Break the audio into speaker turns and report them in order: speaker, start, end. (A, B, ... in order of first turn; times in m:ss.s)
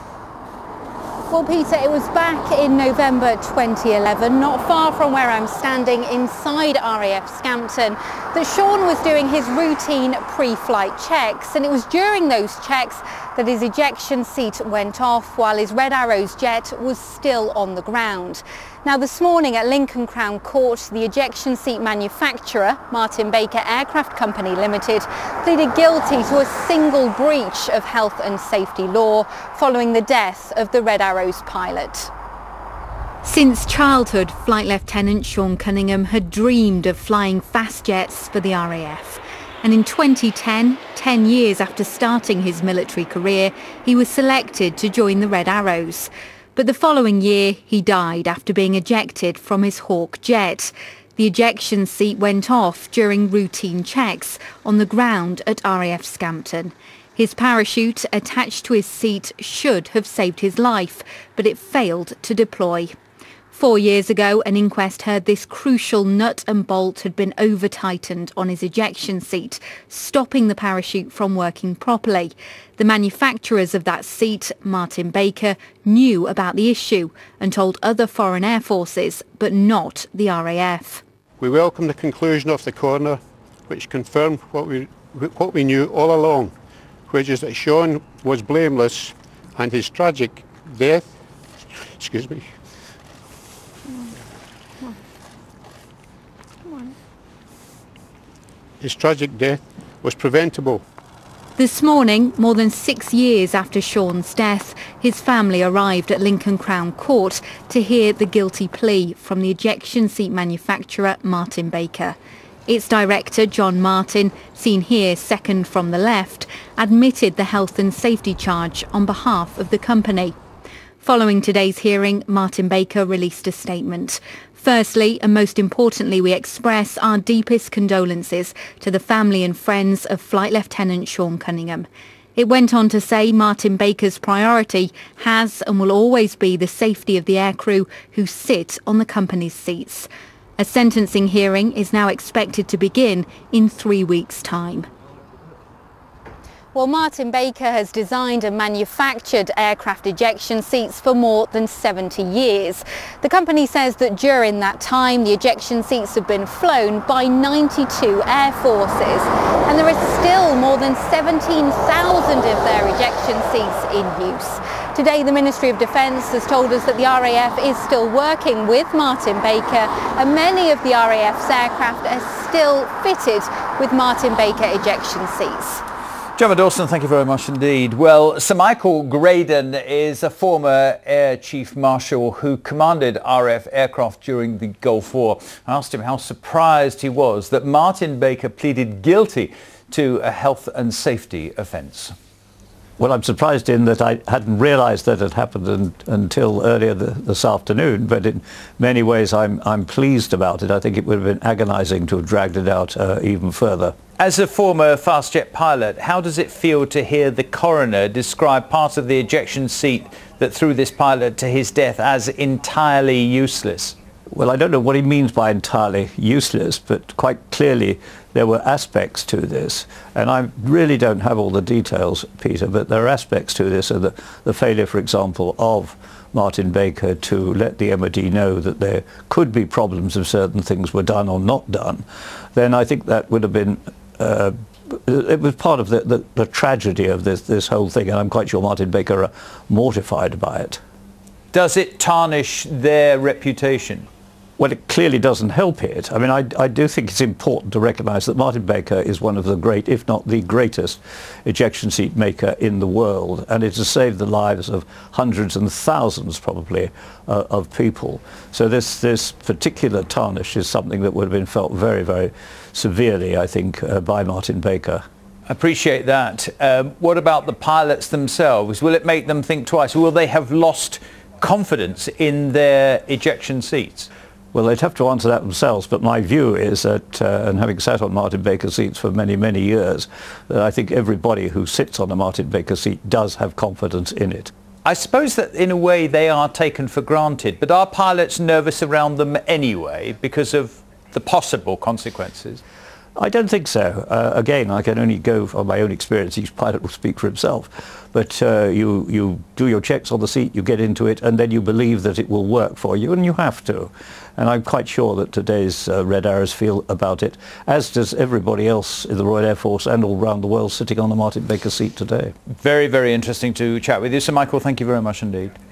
0:01.3-0:32.1 A
0:33.2-1:02.9 A
1:03.5-1:21.0 A
1:21.4-1:26.5 B
1:27.1-1:31.1 B
1:31.8-1:32.4 B
1:36.7-1:36.9 A
1:38.8-1:40.8 B
1:41.6-1:52.2 A
1:52.7-2:00.3 A
2:01.0-2:24.9 A
2:26.7-2:55.8 A
2:56.4-3:12.2 C
3:13.0-3:24.0 D
3:24.2-3:34.0 C
3:34.3-4:00.8 D
4:01.5-4:04.1 C
4:04.6-4:25.0 D
4:25.5-4:34.1 C
4:34.5-4:44.5 D
4:44.8-4:52.6 C
4:53.2-5:12.3 D
5:12.6-5:15.6 C